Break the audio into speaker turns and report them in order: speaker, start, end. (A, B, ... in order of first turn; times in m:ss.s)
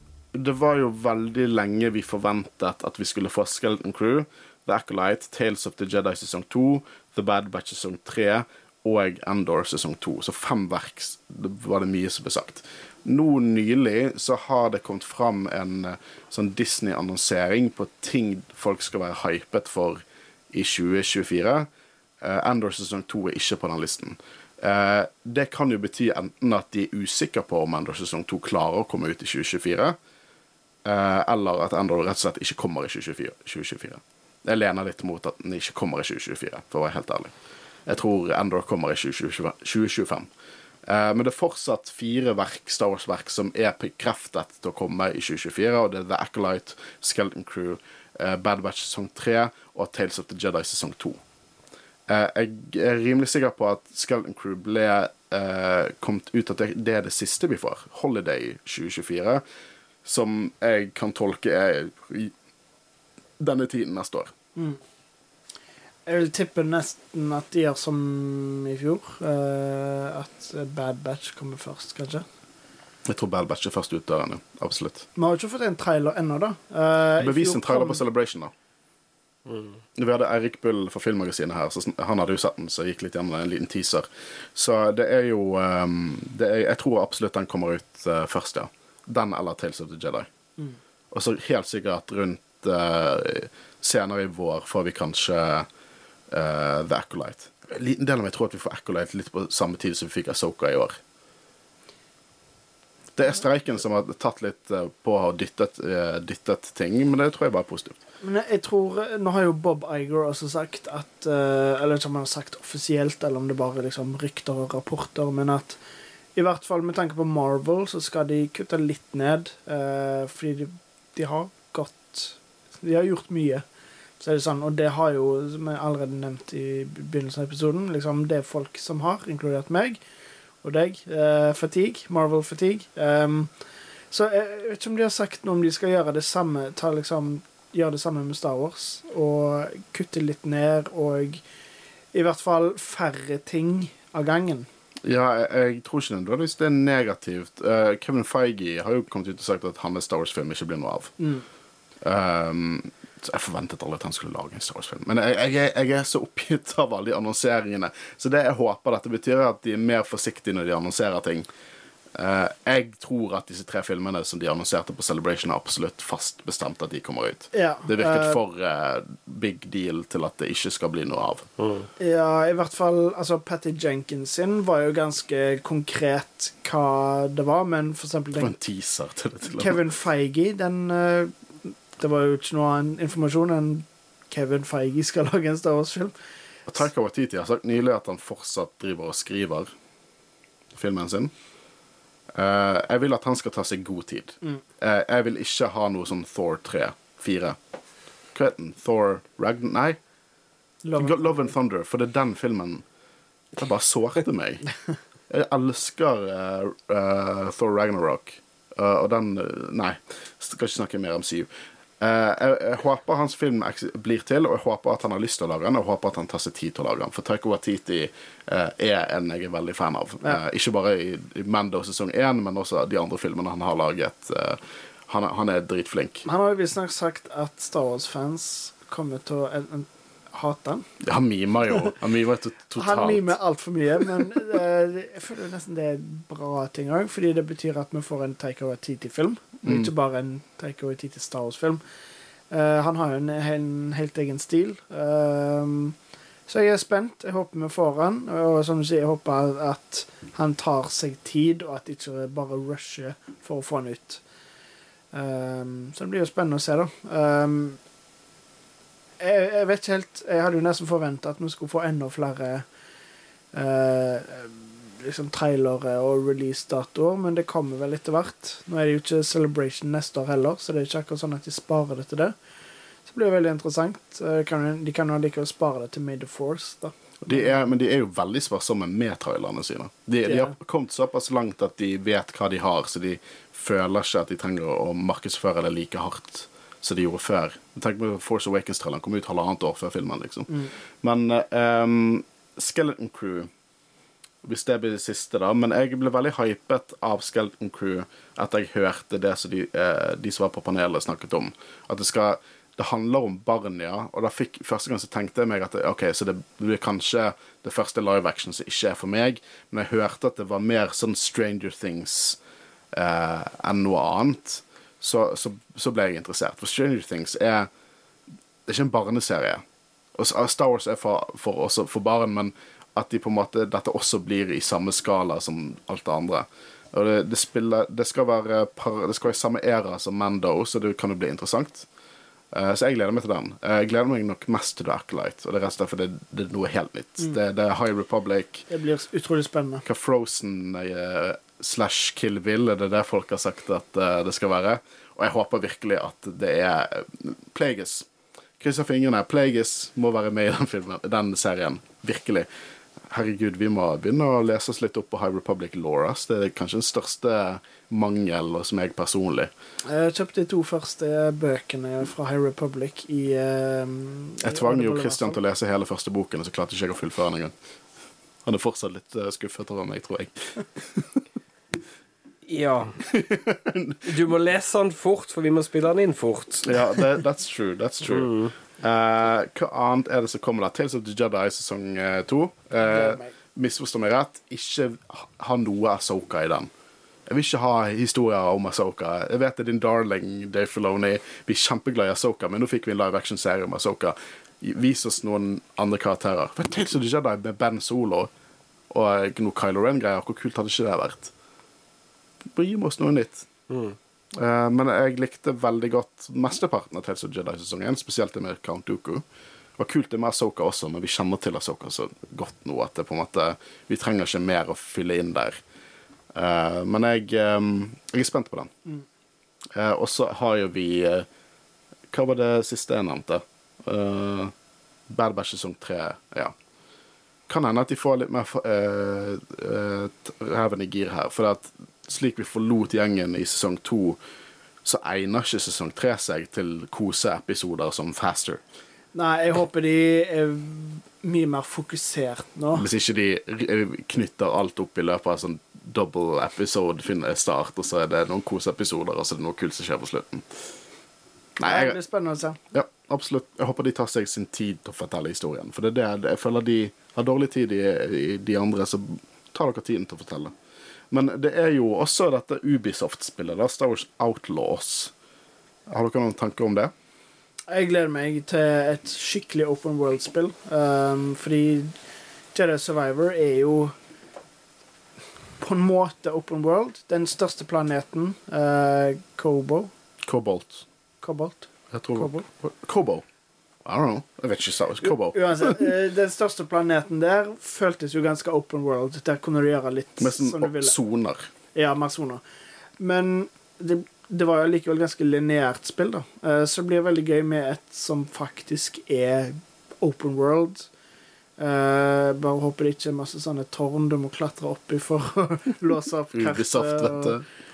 0:00.3-0:21.7 A
0:22.2-0:30.0 A
0:30.8-0:37.4 A
0:37.9-0:40.3 A
0:40.9-0:51.2 A
0:52.1-0:59.4 A
1:00.0-1:02.3 A
1:03.4-1:04.3 A
1:06.1-1:12.2 B
1:13.1-1:15.1 A
1:15.2-1:18.0 B
1:17.2-1:18.5 A
1:19.5-1:19.8 C
1:20.0-1:30.3 A
1:31.1-1:35.7 A
1:36.3-1:41.0 A
1:43.2-1:48.0 A
1:48.2-1:55.8 B
1:56.4-2:03.6 B
2:04.2-2:10.0 B
2:10.6-2:13.5 B
2:14.1-2:21.4 B
2:22.1-2:24.7 B
2:25.1-2:31.2 A
2:31.2-2:31.5 B
2:32.0-2:41.5 A
2:42.2-2:51.5 A
2:47.5-2:48.4 B
2:51.6-2:51.9 C
2:52.0-2:58.5 B
2:58.4-2:59.8 A
2:59.5-3:06.2 B
3:06.7-3:09.7 A
3:10.7-3:11.3 A
3:12.3-3:17.6 A
3:18.3-3:20.0 A
3:20.8-3:21.5 B
3:21.0-3:22.8 A
3:23.5-3:24.6 A
3:25.3-3:46.3 A
3:46.2-3:50.9 B
3:51.0-3:53.4 A
3:52.8-4:01.8 B
3:59.6-3:59.9 A
4:02.5-4:06.0 B
4:06.5-4:14.2 B
4:15.1-4:17.8 B
4:19.2-4:22.7 B
4:23.5-4:32.3 B
4:33.1-4:37.6 B
4:37.2-4:53.5 A
4:40.2-4:40.5 B
4:54.4-5:12.4 A
5:12.9-5:17.7 A
5:18.7-5:19.6 A
5:20.2-5:31.9 A
5:32.5-5:38.7 A
5:38.7-5:39.8 B
5:39.8-5:48.1 A
5:48.6-5:52.5 A
5:53.1-5:59.5 A
5:59.8-6:05.4 B
6:04.4-6:07.5 A
6:08.4-6:11.2 A
6:12.5-6:13.1 C
6:13.1-6:14.0 A
6:14.0-6:17.1 C
6:16.6-6:26.7 A
6:18.0-6:18.5 C
6:22.8-6:23.3 B
6:27.3-6:38.3 A
6:38.9-6:41.3 A
6:42.5-6:43.5 A
6:43.7-6:44.0 C
6:44.3-6:49.2 A
6:49.8-6:55.6 A
6:56.3-6:58.7 A
6:59.8-7:01.3 A
7:02.1-7:04.5 A
7:05.1-7:06.6 A
7:07.5-7:14.2 A
7:14.8-7:18.6 A
7:19.1-7:22.9 B
7:22.7-7:30.6 A
7:31.6-7:32.0 A
7:31.6-7:32.6 B
7:32.7-7:40.5 A
7:41.1-7:45.1 A
7:45.9-7:46.9 A
7:47.7-7:52.0 B
7:52.5-7:53.9 B
7:55.6-7:59.9 B
8:00.2-8:00.8 A
8:01.2-8:02.5 B
8:01.9-8:03.3 A
8:03.8-8:05.8 A
8:05.0-8:11.0 B
8:10.2-8:11.5 A
8:11.7-8:12.4 B
8:13.0-8:20.9 B
8:21.6-8:27.4 B
8:26.3-8:27.4 A